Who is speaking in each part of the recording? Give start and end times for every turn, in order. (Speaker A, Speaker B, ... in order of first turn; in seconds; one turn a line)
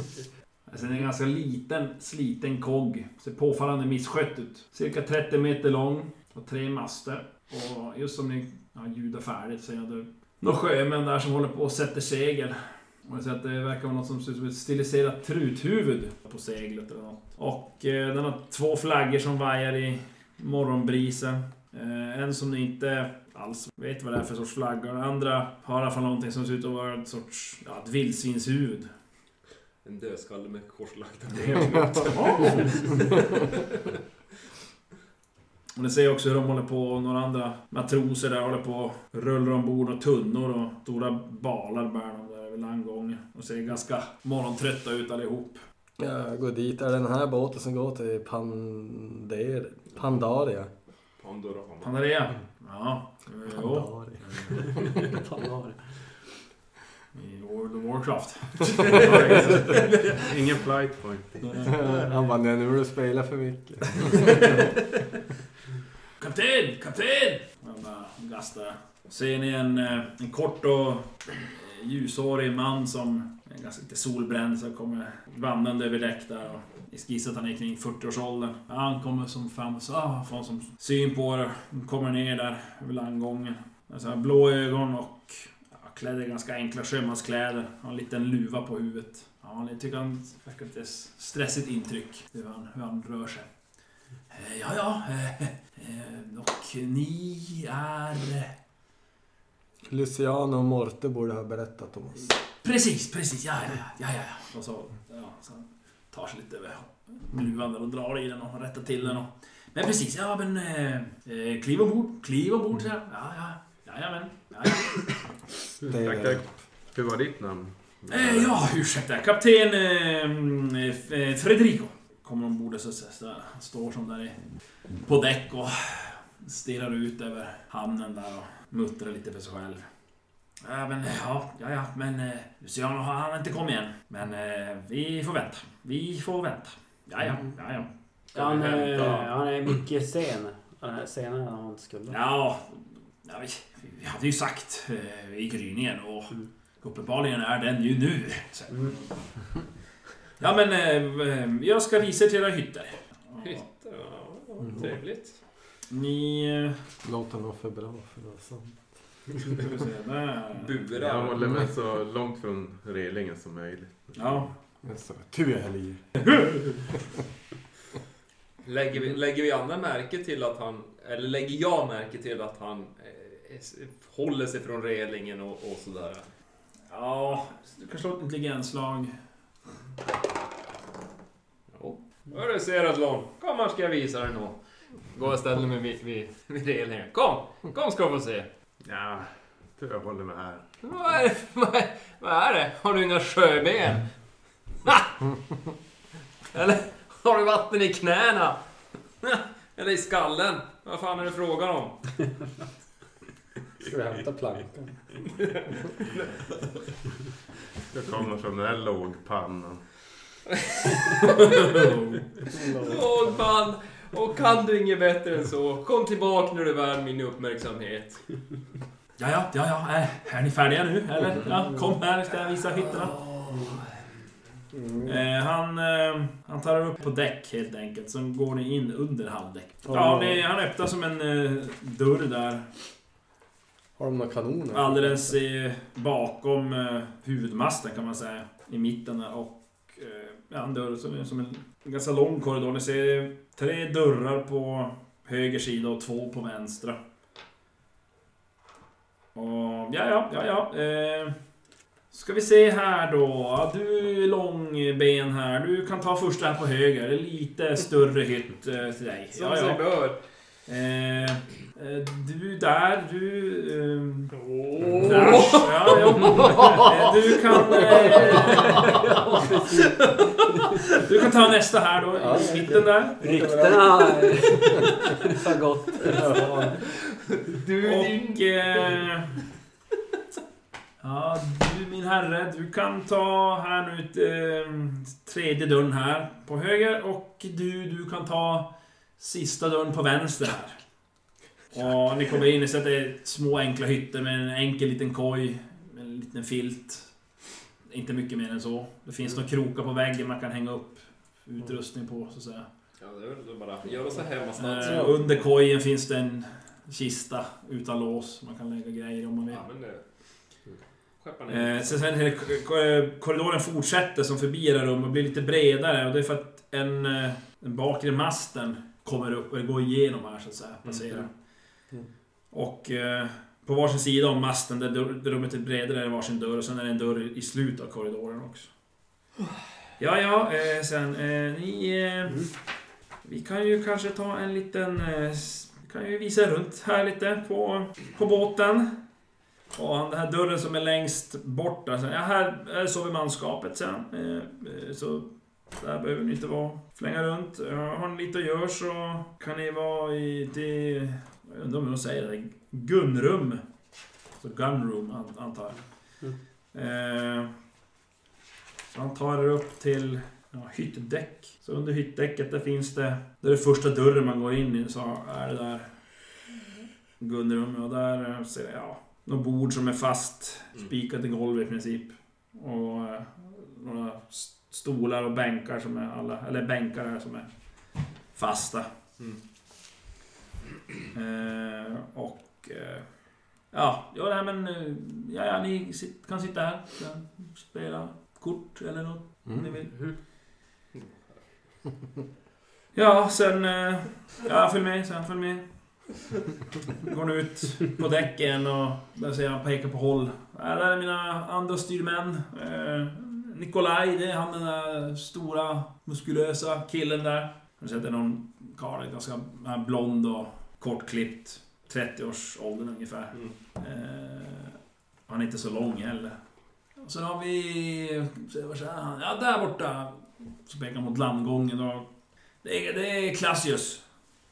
Speaker A: 0.7-28.9
Speaker B: 29.8-33.6
Speaker A: 32.0-32.8
Speaker A: 35.8-45.6
Speaker C: 46.0-50.7
Speaker B: 51.2-52.0
Speaker A: 51.8-54.6
Speaker C: 53.6-54.9
Speaker D: 54.8-55.8
Speaker A: 57.1-59.8
Speaker B: 59.5-60.2
Speaker E: 60.1-61.7
Speaker C: 61.6-64.6
Speaker A: 66.2-93.5
Speaker A: 94.3-98.5
Speaker C: 99.9-102.3
Speaker A: 102.6-115.2
Speaker C: 115.9-116.5
Speaker E: 115.9-118.7
Speaker A: 118.1-124.4
Speaker A: 125.0-129.8
Speaker A: 130.6-137.9
Speaker B: 138.3-139.2
Speaker D: 138.3-142.2
Speaker A: 138.5-139.3
Speaker A: 142.1-149.3
Speaker A: 150.4-153.6
Speaker B: 153.4-155.4
Speaker A: 155.9-156.8
Speaker C: 157.0-158.8
Speaker A: 159.5-160.8
Speaker B: 160.6-161.4
Speaker E: 160.9-164.5
Speaker A: 164.2-164.5
Speaker C: 164.8-166.2
Speaker A: 166.2-166.7
Speaker B: 168.6-176.3
Speaker A: 176.9-179.2
Speaker B: 181.7-184.6
Speaker B: 185.1-188.5
Speaker E: 188.9-189.3
Speaker E: 189.8-190.7
Speaker B: 190.8-194.1
Speaker B: 194.8-195.1
Speaker B: 196.5-198.6
Speaker B: 199.2-202.0
Speaker C: 203.8-204.9
Speaker B: 205.2-206.8
Speaker E: 207.9-209.8
Speaker B: 210.5-212.0
Speaker C: 212.5-213.3
Speaker B: 212.7-218.2
Speaker A: 219.2-223.2
Speaker B: 223.1-223.9
Speaker C: 224.7-225.2
Speaker A: 225.1-232.7
Speaker C: 229.8-230.4
Speaker C: 234.0-235.3
Speaker A: 234.7-247.0
Speaker A: 249.3-251.3
Speaker A: 252.1-259.8
Speaker B: 259.3-260.2
Speaker A: 260.7-264.3
Speaker B: 264.4-266.9
Speaker A: 265.0-269.0
Speaker B: 268.1-270.1
Speaker D: 268.1-270.7
Speaker A: 270.6-273.2
Speaker C: 272.2-274.6
Speaker D: 273.2-276.4
Speaker B: 274.6-274.9
Speaker C: 276.0-276.8
Speaker B: 276.8-279.0
Speaker A: 277.8-279.3
Speaker A: 281.0-290.8
Speaker A: 291.7-297.1
Speaker A: 297.9-302.7
Speaker B: 303.0-305.4
Speaker A: 304.6-309.6
Speaker B: 309.5-310.0
Speaker B: 310.7-312.1
Speaker A: 311.5-321.3
Speaker A: 322.5-328.7
Speaker A: 330.0-332.5
Speaker A: 333.2-338.9
Speaker A: 339.8-353.6
Speaker A: 354.4-355.8
Speaker A: 356.7-357.5
Speaker A: 358.9-365.9
Speaker A: 367.2-377.5
Speaker A: 378.3-378.9
Speaker A: 381.1-383.1
Speaker A: 383.7-389.9
Speaker C: 389.5-389.7
Speaker A: 392.9-395.6
Speaker A: 397.0-416.4
Speaker A: 417.0-422.1
Speaker A: 422.6-424.0